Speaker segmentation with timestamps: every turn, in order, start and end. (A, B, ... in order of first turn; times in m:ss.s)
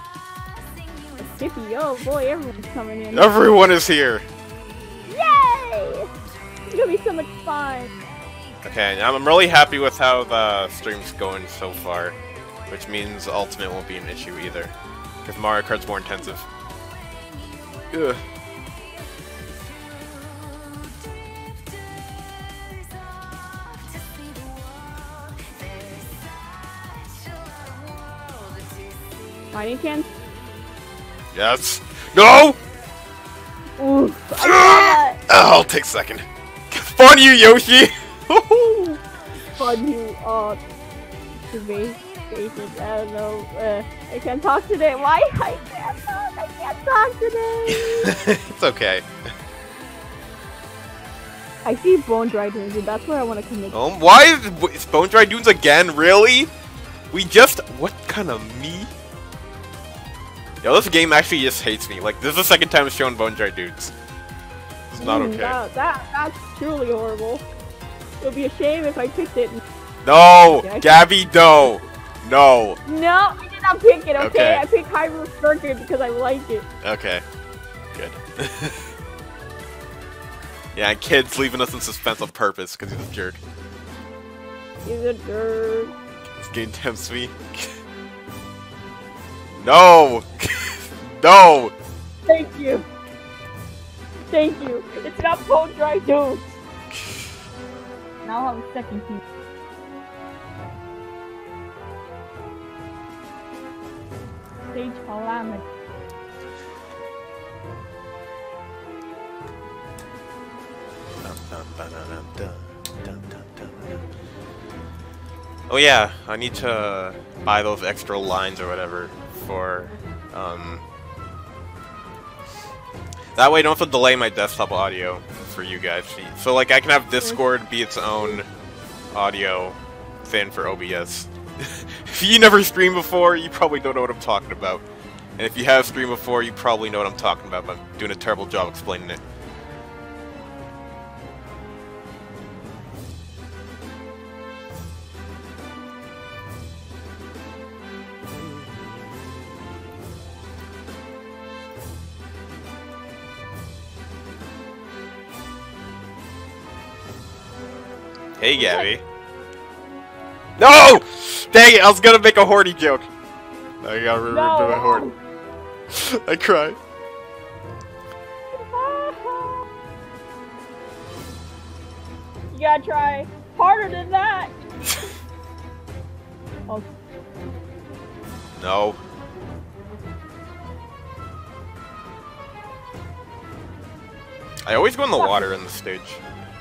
0:01.2-0:03.3 A
0:03.1-0:04.2 B
0:05.1-0:06.1 A
0:06.7-0:07.9 A
0:08.6-0:12.2 B
0:12.7-0:14.7 B
0:15.2-0:16.4 B
0:17.9-0:18.2 B
0:29.5-0:30.1 A
0:31.3-0:32.6 B
0:33.8-0:35.2 A
0:34.4-0:39.0 B
0:39.6-0:40.6 A
0:41.5-0:48.2 A
0:47.7-0:49.1 B
0:51.6-0:53.8 A
0:53.7-0:56.5 B
0:57.1-0:58.9 B
1:00.6-1:03.9 B
1:04.9-1:05.6 B
1:05.0-1:07.4 A
1:08.2-1:09.6 A
1:10.0-1:12.8 B
1:10.6-1:11.1 A
1:12.8-1:16.7 A
1:14.2-1:14.6 B
1:16.8-1:17.2 B
1:17.9-1:18.8 B
1:20.8-1:23.4 B
1:24.8-1:25.9 A
1:26.4-1:27.7 B
1:29.6-1:31.7 B
1:32.3-1:32.8 A
1:34.3-1:36.4 A
1:38.2-1:39.2 A
1:44.7-1:45.6 A
1:51.2-1:54.0 B
1:55.7-2:00.8 B
2:03.4-2:08.5 B
2:09.1-2:14.8 B
2:15.4-2:19.2 B
2:38.4-2:39.0 B
2:38.6-2:38.9 A
2:40.6-2:43.1 B
2:43.8-2:45.1 B
2:44.3-2:45.1 A
2:45.9-2:46.8 B
2:48.5-2:49.7 A
2:52.5-2:54.5 A
2:58.6-2:59.0 B
3:04.7-3:06.2 B
3:05.2-3:05.5 A